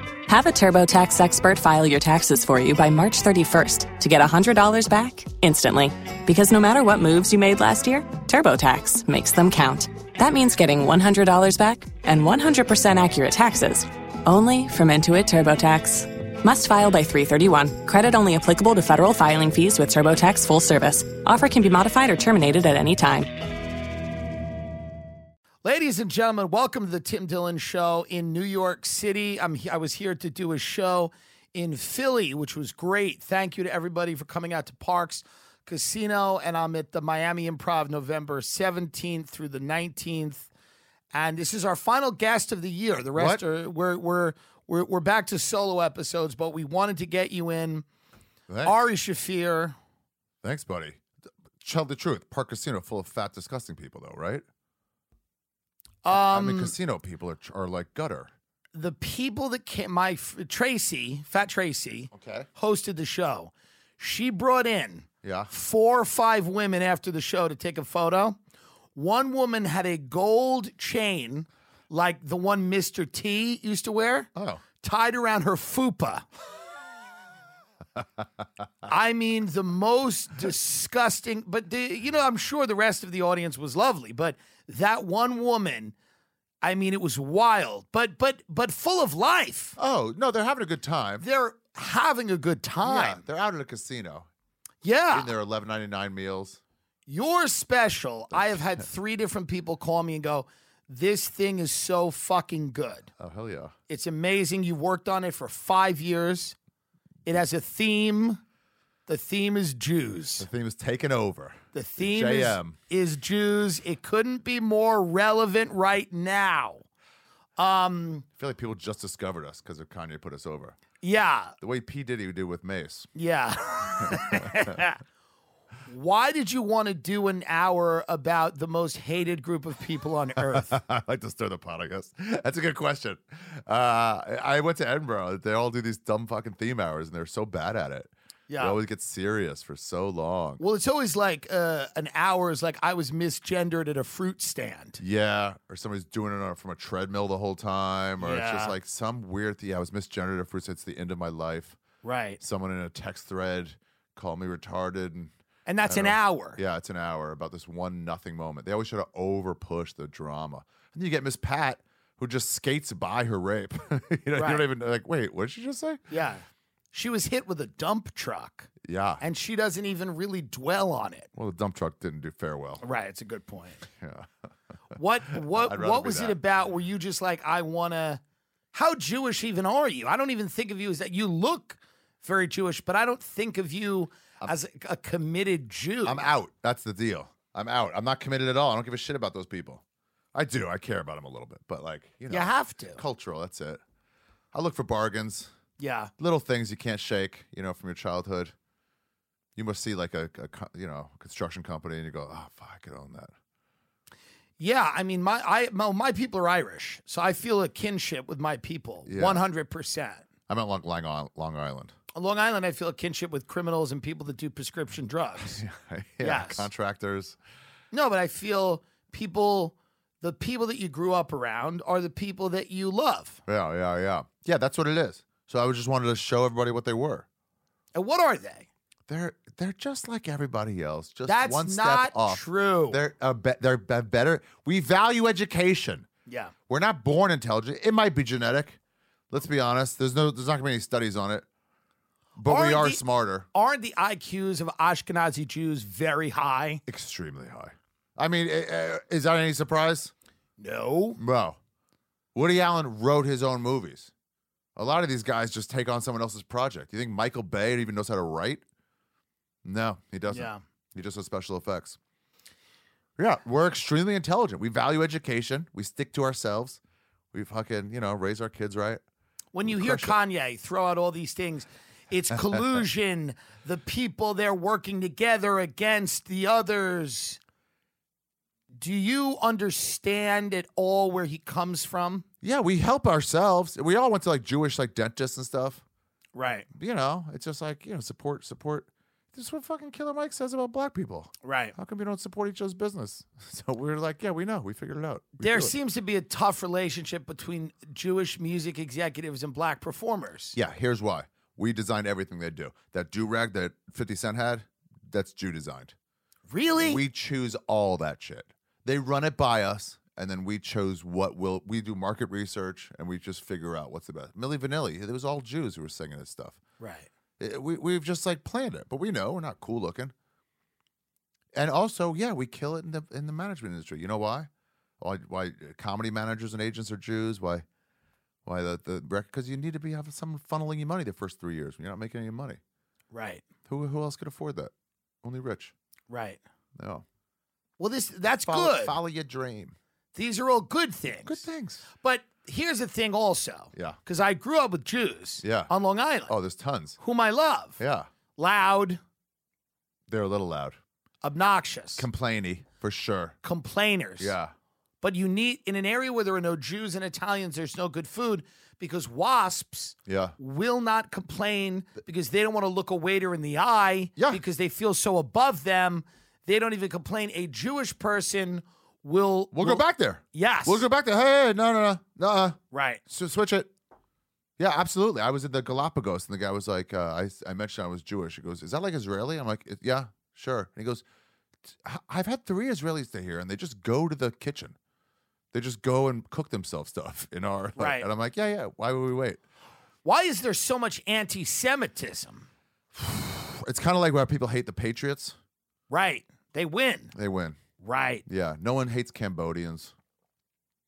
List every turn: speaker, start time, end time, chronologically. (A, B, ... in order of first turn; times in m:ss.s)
0:00.3-0:23.3 A
0:25.6-0:40.5 B
0:41.1-0:47.8 B
0:43.2-0:43.4 C
0:48.5-0:48.8 C
0:48.6-0:49.8 B
0:50.4-0:51.0 C
0:51.6-0:54.4 C
0:56.0-0:56.7 B
0:56.1-0:58.3 C
0:58.7-1:08.4 B
1:02.1-1:02.5 C
1:05.2-1:05.5 C
1:09.0-1:16.3 B
1:14.3-1:14.6 C
1:18.9-1:26.0 B
1:26.6-1:29.8 B
1:29.8-1:31.2 C
1:31.2-1:33.2 B
1:32.8-1:34.3 C
1:34.8-1:35.3 B
1:35.1-1:36.6 C
1:37.1-1:43.1 B
1:38.3-1:38.8 C
1:43.2-1:43.7 C
1:43.9-1:46.6 B
1:47.3-1:48.4 B
1:49.1-1:50.5 B
1:50.4-1:52.8 C
1:51.7-1:56.8 B
1:57.6-1:58.3 B
1:58.4-2:00.8 C
2:01.0-2:01.6 B
2:01.6-2:03.1 C
2:03.2-2:05.0 B
2:04.0-2:04.8 C
2:05.9-2:10.8 B
2:10.5-2:20.6 C
2:18.5-2:18.8 B
2:20.6-2:25.0 B
2:25.0-2:31.8 C
2:28.2-2:28.8 B
2:32.0-2:32.4 B
2:32.4-2:35.3 C
2:35.7-2:36.6 B
2:35.8-2:46.1 C
2:44.4-2:44.7 B
2:46.1-2:51.3 B
2:48.8-2:49.2 C
2:51.4-2:52.8 C
2:52.8-2:53.9 B
2:54.0-2:54.3 C
2:54.9-2:56.4 C
2:55.0-2:58.2 B
2:58.7-3:06.3 B
3:06.0-3:09.8 C
3:10.3-3:13.8 C
3:12.3-3:13.0 B
3:14.5-3:15.5 C
3:15.8-3:16.1 B
3:16.2-3:18.5 C
3:19.6-3:23.3 C
3:24.6-3:30.2 B
3:29.0-3:29.4 C
3:30.5-3:32.0 C
3:32.1-3:35.6 B
3:35.5-3:37.4 C
3:36.2-3:36.7 B
3:37.9-3:43.4 B
3:43.5-3:47.3 C
3:48.0-3:48.7 B
3:49.1-3:56.1 C
3:51.3-3:53.0 B
3:56.3-3:56.5 B
3:56.7-3:58.8 C
3:59.3-4:01.5 C
4:02.4-4:03.5 C
4:02.4-4:03.0 B
4:03.5-4:06.8 B
4:06.9-4:10.1 C
4:10.6-4:11.2 B
4:11.2-4:11.6 C
4:12.3-4:14.1 C
4:14.8-4:18.6 C
4:19.6-4:22.0 C
4:20.3-4:20.6 B
4:23.2-4:26.8 C
4:27.3-4:29.0 C
4:29.5-4:37.4 B
4:29.7-4:30.2 C
4:38.7-4:42.2 B
4:42.4-4:45.8 C
4:46.4-4:46.7 B
4:46.7-4:55.7 C
4:51.4-4:51.8 B
4:55.4-5:00.6 B
5:00.6-5:06.0 C
5:06.5-5:07.0 B
5:06.8-5:16.6 C
5:16.8-5:17.1 B
5:17.4-5:20.1 C
5:21.5-5:27.6 C
5:28.4-5:32.6 C
5:33.1-5:33.4 B
5:33.7-5:34.7 C
5:35.2-5:35.7 C
5:36.1-5:36.4 B
5:36.8-5:37.0 C
5:37.8-5:39.0 B
5:38.3-5:39.8 C
5:40.2-5:41.4 B
5:41.2-5:41.9 C
5:42.0-5:46.3 B
5:45.4-5:45.7 C
5:46.3-5:47.0 C
5:47.0-5:47.8 B
5:47.8-5:48.1 C
5:48.4-5:49.0 B
5:50.1-5:50.8 C
5:51.2-5:52.1 B
5:52.0-5:53.4 C
5:53.4-5:54.3 B
5:54.2-5:54.5 C
5:55.0-6:09.8 B
6:00.1-6:00.4 C
6:04.2-6:04.4 C
6:09.5-6:13.7 C
6:10.3-6:10.8 B
6:12.7-6:13.0 B
6:14.6-6:21.0 C
6:21.6-6:24.8 C
6:25.5-6:29.4 C
6:27.8-6:28.1 B
6:30.0-6:32.5 B
6:32.9-6:35.4 C
6:35.9-6:37.1 B
6:37.1-6:37.6 C
6:37.8-6:38.2 B
6:38.3-6:39.9 C